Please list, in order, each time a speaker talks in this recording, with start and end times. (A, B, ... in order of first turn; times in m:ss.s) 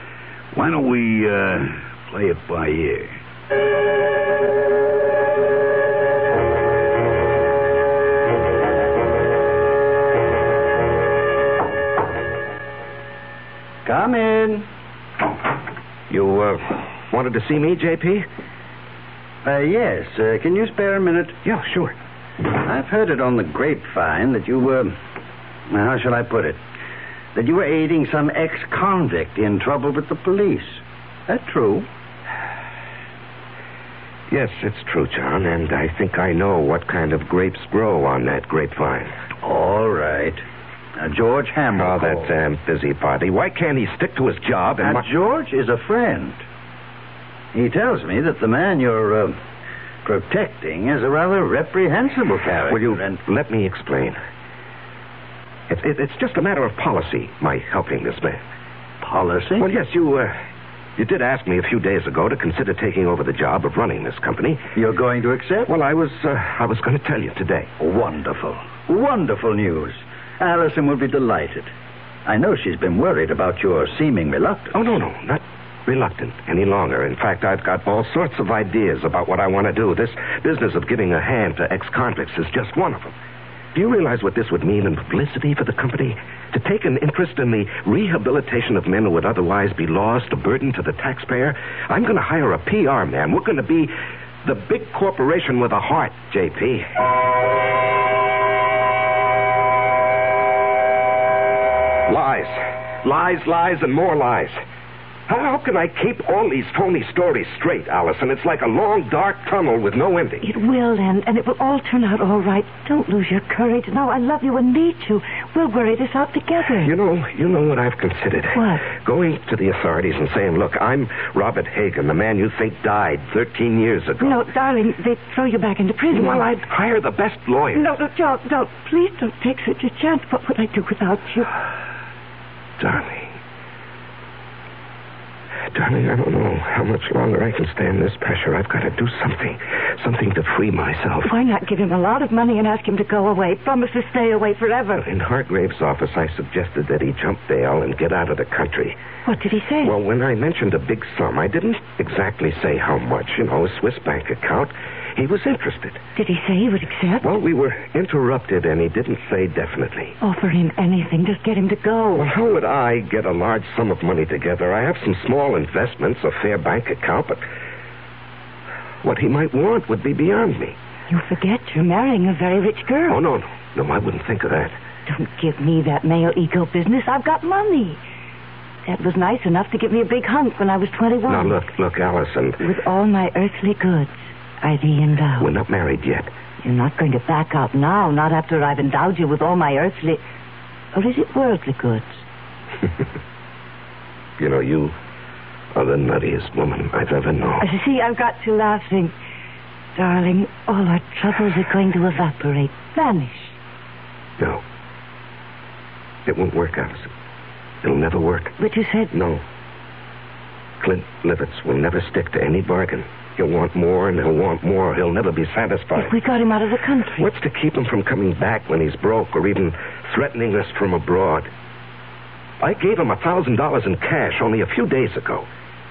0:00.5-0:03.1 A
0:13.8-0:14.6 B
0:16.1-0:18.2 C
0:19.4-0:21.4 B
0:21.4-0:21.9 C
0:22.5-0:24.9 B
0:25.7-0:26.6 B
0:27.3-0:31.9 B
0:34.3-0:39.1 C
0:39.4-0:40.4 B
0:41.0-0:42.3 B
0:41.7-0:45.0 C
0:44.8-0:46.4 B
0:47.5-0:49.4 B
0:50.0-0:53.2 B
0:52.7-0:54.2 C
0:55.7-0:58.4 C
0:59.0-0:59.7 B
0:59.6-1:00.3 C
1:01.0-1:04.6 C
1:04.8-1:05.7 B
1:05.7-1:07.7 C
1:07.8-1:11.7 B
1:12.2-1:14.9 B
1:14.7-1:23.1 C
1:23.7-1:33.9 C
1:34.4-1:36.8 C
1:42.1-1:44.6 C
1:45.3-1:50.4 C
1:50.4-1:56.9 D
1:56.8-2:04.4 C
1:58.5-1:58.8 D
2:04.2-2:06.4 D
2:06.1-2:07.8 C
2:07.7-2:11.5 D
2:12.8-2:13.3 C
2:15.7-2:21.3 C
2:21.2-2:25.0 D
2:25.0-2:29.0 C
2:29.2-2:29.9 D
2:29.8-2:36.0 C
2:36.2-2:37.2 D
2:37.2-2:40.2 C
2:40.2-2:42.3 D
2:42.1-2:47.4 C
2:49.0-2:50.8 C
2:51.1-2:53.2 D
2:53.1-2:54.7 C
2:55.1-2:58.0 D
2:58.8-3:01.6 D
3:01.3-3:02.6 C
3:02.6-3:05.5 D
3:05.4-3:06.3 C
3:06.6-3:10.2 D
3:10.9-3:12.2 D
3:14.4-3:14.9 C
3:15.7-3:17.6 C
3:17.6-3:19.1 D
3:20.0-3:23.6 D
3:26.2-3:27.1 C
3:27.8-3:28.5 C
3:28.6-3:29.1 D
3:29.1-3:29.4 C
3:30.8-3:36.1 C
3:35.9-3:37.2 D
3:37.2-3:41.5 C
3:42.6-3:45.5 C